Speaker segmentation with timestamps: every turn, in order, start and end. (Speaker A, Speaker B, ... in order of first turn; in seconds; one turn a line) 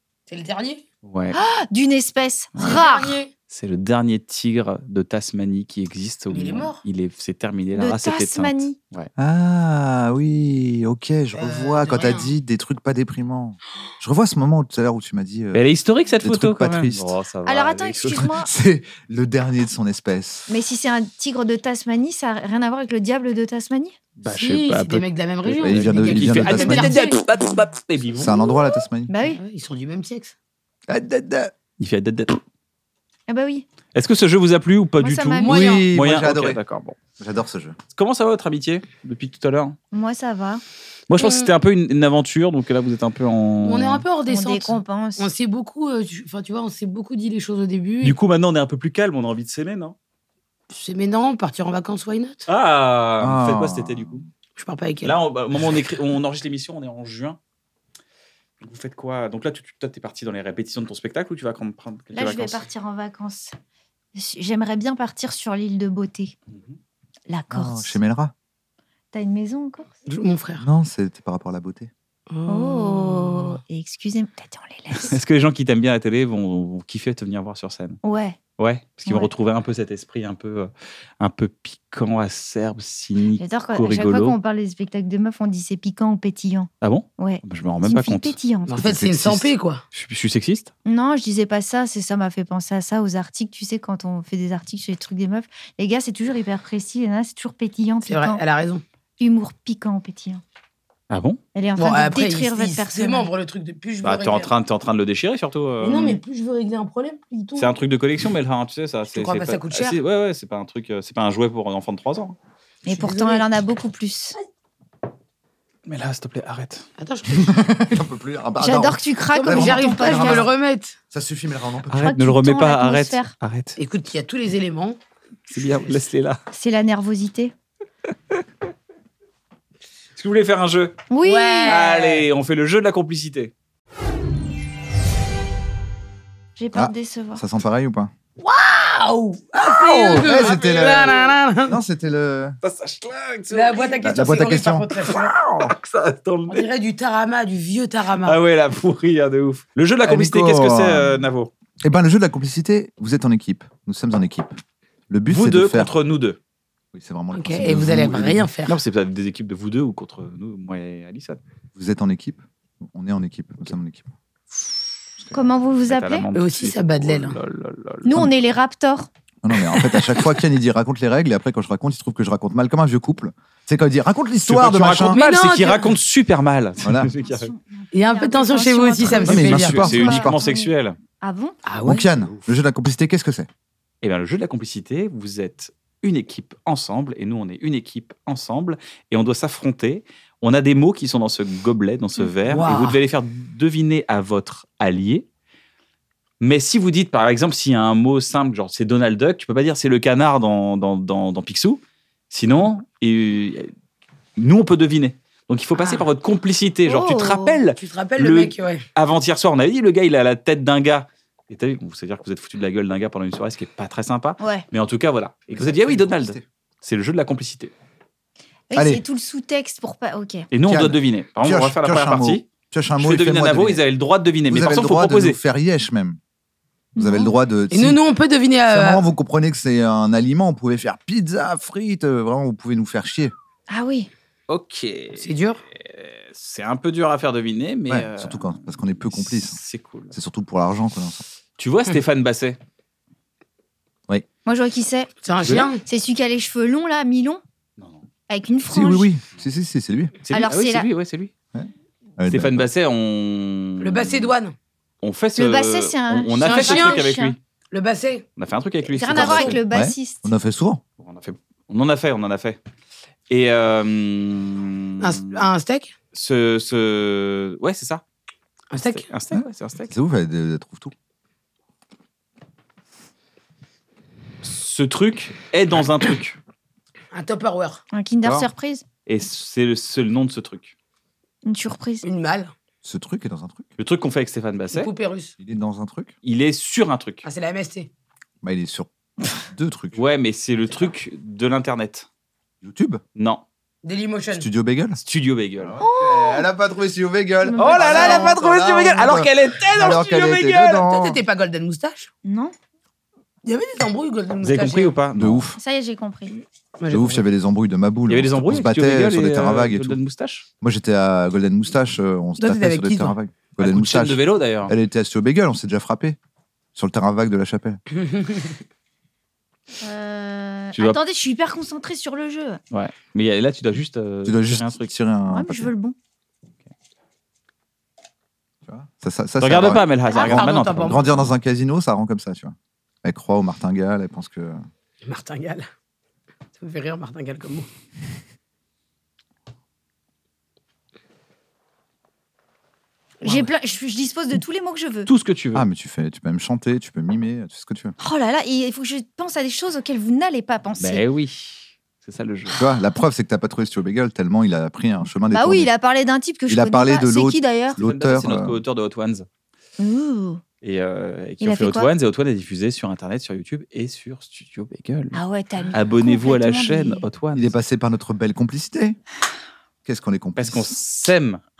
Speaker A: 0.3-0.8
Speaker B: 1.0-1.4
Speaker C: 1.3-3.2
Speaker A: 2.6-3.3
Speaker B: 3.5-9.1
Speaker A: 6.3-6.8
Speaker C: 7.7-8.8
Speaker D: 9.2-15.6
Speaker A: 11.3-12.3
Speaker B: 15.5-18.2
Speaker D: 16.2-17.1
Speaker C: 17.4-18.5
Speaker D: 18.1-20.5
Speaker C: 20.5-23.9
Speaker B: 24.2-28.3
Speaker A: 24.3-27.2
Speaker D: 25.6-27.0
Speaker C: 26.5-27.2
Speaker D: 28.2-29.1
Speaker C: 29.1-29.4
Speaker A: 29.2-30.3
Speaker D: 30.9-31.5
Speaker B: 31.8-32.4
Speaker C: 33.3-33.6
Speaker B: 33.9-37.0
Speaker C: 35.0-35.7
Speaker A: 35.4-35.9
Speaker D: 35.5-36.6
Speaker D: 37.2-37.8
Speaker B: 37.9-39.8
Speaker C: 39.9-40.6
Speaker B: 41.1-44.0
Speaker A: 41.2-41.5
Speaker A: 43.6-48.1
Speaker C: 44.2-45.3
Speaker B: 48.0-50.0
Speaker A: 50.7-52.5
Speaker B: 52.5-54.2
Speaker D: 53.2-54.3
Speaker A: 54.6-55.1
Speaker B: 55.0-57.4
Speaker B: 58.6-62.6
Speaker C: 62.1-63.5
Speaker C: 64.1-66.3
Speaker B: 66.5-66.8
Speaker C: 67.3-68.0
Speaker D: 67.5-68.3
Speaker C: 69.1-69.9
Speaker A: 70.0-70.6
Speaker D: 70.6-71.9
Speaker A: 72.3-73.6
Speaker C: 72.5-75.1
Speaker B: 75.0-78.0
Speaker C: 78.0-78.4
Speaker B: 78.6-84.4
Speaker C: 79.0-79.3
Speaker C: 83.4-88.8
Speaker B: 86.8-88.3
Speaker A: 88.7-89.8
Speaker D: 88.8-89.5
Speaker B: 89.9-90.7
Speaker C: 90.8-98.4
Speaker A: 98.0-98.8
Speaker C: 99.2-100.4
Speaker B: 101.1-101.4
Speaker C: 101.5-103.3
Speaker A: 101.8-104.5
Speaker B: 104.0-106.2
Speaker A: 105.8-107.7
Speaker B: 107.6-112.3
Speaker A: 109.1-110.0
Speaker A: 112.8-113.5
Speaker C: 112.8-114.3
Speaker B: 115.8-116.8
Speaker A: 117.0-118.0
Speaker D: 117.5-120.5
Speaker C: 118.6-120.5
Speaker A: 119.3-121.0
Speaker D: 121.1-122.1
Speaker B: 121.9-123.8
Speaker C: 122.0-123.3
Speaker A: 123.8-125.0
Speaker B: 125.5-126.4
Speaker A: 125.6-125.9
Speaker C: 126.5-127.5
Speaker B: 130.2-131.0
Speaker C: 131.1-131.8
Speaker A: 131.2-132.2
Speaker B: 131.7-133.5
Speaker C: 136.6-137.4
Speaker D: 136.7-138.1
Speaker A: 138.4-141.8
Speaker D: 139.7-142.6
Speaker B: 140.1-141.3
Speaker B: 142.6-144.2
Speaker A: 143.5-145.3
Speaker D: 144.0-144.9
Speaker B: 144.9-146.7
Speaker A: 146.5-148.4
Speaker B: 148.2-151.5
Speaker D: 150.0-151.3
Speaker D: 151.8-154.6
Speaker D: 155.1-155.9
Speaker B: 155.3-156.4
Speaker D: 156.9-158.5
Speaker A: 157.3-158.8
Speaker B: 158.7-161.4
Speaker D: 161.8-164.1
Speaker C: 165.3-166.2
Speaker B: 165.9-168.3
Speaker A: 166.3-167.4
Speaker C: 168.0-169.1
Speaker D: 169.4-175.2
Speaker B: 174.4-177.5
Speaker A: 175.1-175.9
Speaker D: 176.8-177.1
Speaker C: 177.2-181.6
Speaker A: 177.9-180.1
Speaker D: 179.0-180.3
Speaker B: 179.2-181.0
Speaker A: 181.6-182.1
Speaker D: 181.8-183.5
Speaker B: 184.0-195.2
Speaker A: 192.4-193.0
Speaker B: 196.4-203.7
Speaker B: 204.4-217.7
Speaker A: 205.8-206.0
Speaker C: 206.8-207.6
Speaker A: 207.8-208.8
Speaker C: 214.4-214.6
Speaker D: 215.5-216.4
Speaker C: 218.7-220.5
Speaker D: 218.7-219.0
Speaker B: 220.5-222.5
Speaker D: 220.6-223.8
Speaker B: 223.0-225.4
Speaker D: 224.5-226.2
Speaker C: 226.9-227.3
Speaker D: 227.0-228.0
Speaker A: 227.7-229.0
Speaker D: 228.7-233.3
Speaker C: 233.7-234.1
Speaker B: 234.5-240.1
Speaker A: 235.2-235.6
Speaker D: 237.9-239.6
Speaker D: 240.1-241.2
Speaker B: 241.6-242.6
Speaker C: 244.4-245.1
Speaker A: 245.2-245.8
Speaker C: 245.8-247.4
Speaker B: 247.8-248.0
Speaker C: 248.3-249.1
Speaker D: 248.7-250.1
Speaker B: 250.2-251.3
Speaker C: 250.3-250.9
Speaker D: 251.5-252.7
Speaker B: 252.3-254.3
Speaker A: 253.8-254.5
Speaker B: 255.0-257.4
Speaker C: 255.3-257.3
Speaker A: 256.4-257.1
Speaker A: 257.7-258.2
Speaker B: 258.4-259.6
Speaker C: 258.9-260.3
Speaker A: 259.1-259.5
Speaker D: 259.1-260.8
Speaker B: 261.0-262.6
Speaker B: 263.3-265.4
Speaker A: 265.0-265.9
Speaker B: 266.1-268.0
Speaker A: 268.7-269.1
Speaker B: 268.8-269.9
Speaker D: 269.3-270.9
Speaker B: 274.4-276.4
Speaker A: 277.1-277.8
Speaker C: 277.9-278.8
Speaker D: 278.2-278.5
Speaker B: 279.1-280.7
Speaker C: 281.4-282.0
Speaker A: 282.0-282.5
Speaker D: 282.8-283.7
Speaker B: 283.8-284.9
Speaker A: 284.7-285.3
Speaker D: 285.4-286.1
Speaker B: 286.2-287.2
Speaker A: 287.2-287.9
Speaker D: 288.4-288.9
Speaker D: 289.5-290.0
Speaker B: 289.9-292.1
Speaker D: 292.6-293.0
Speaker B: 293.1-293.4
Speaker A: 293.8-294.5
Speaker D: 294.3-295.0
Speaker B: 295.0-295.7
Speaker D: 295.6-301.2
Speaker C: 295.8-296.5
Speaker C: 297.4-298.4
Speaker B: 297.6-300.8
Speaker A: 300.8-302.1
Speaker C: 302.2-302.5
Speaker A: 303.4-305.0
Speaker B: 304.4-305.4
Speaker D: 305.1-305.6
Speaker C: 305.6-306.3
Speaker A: 306.4-307.2
Speaker D: 306.9-310.0
Speaker B: 308.1-310.4
Speaker D: 310.6-316.2
Speaker A: 312.4-313.1
Speaker B: 313.6-314.7
Speaker D: 316.7-317.8
Speaker A: 318.0-318.5
Speaker C: 319.8-322.6
Speaker B: 322.7-324.9
Speaker D: 324.2-325.7
Speaker C: 325.3-325.9
Speaker D: 328.6-334.6
Speaker B: 329.4-331.3
Speaker A: 330.2-331.1
Speaker A: 335.0-335.7
Speaker A: 336.6-337.7
Speaker C: 343.2-345.1
Speaker A: 343.2-343.5
Speaker B: 345.1-345.6
Speaker D: 345.5-347.9
Speaker C: 348.0-351.0
Speaker B: 350.8-352.6
Speaker C: 352.5-352.7
Speaker D: 352.6-355.7
Speaker C: 355.3-357.8
Speaker D: 356.5-358.6
Speaker B: 357.8-359.3
Speaker C: 359.8-360.4
Speaker B: 360.6-365.2
Speaker C: 361.4-361.9
Speaker C: 365.1-367.0
Speaker B: 365.7-367.5
Speaker D: 367.3-369.0
Speaker D: 369.8-370.7
Speaker B: 370.4-371.4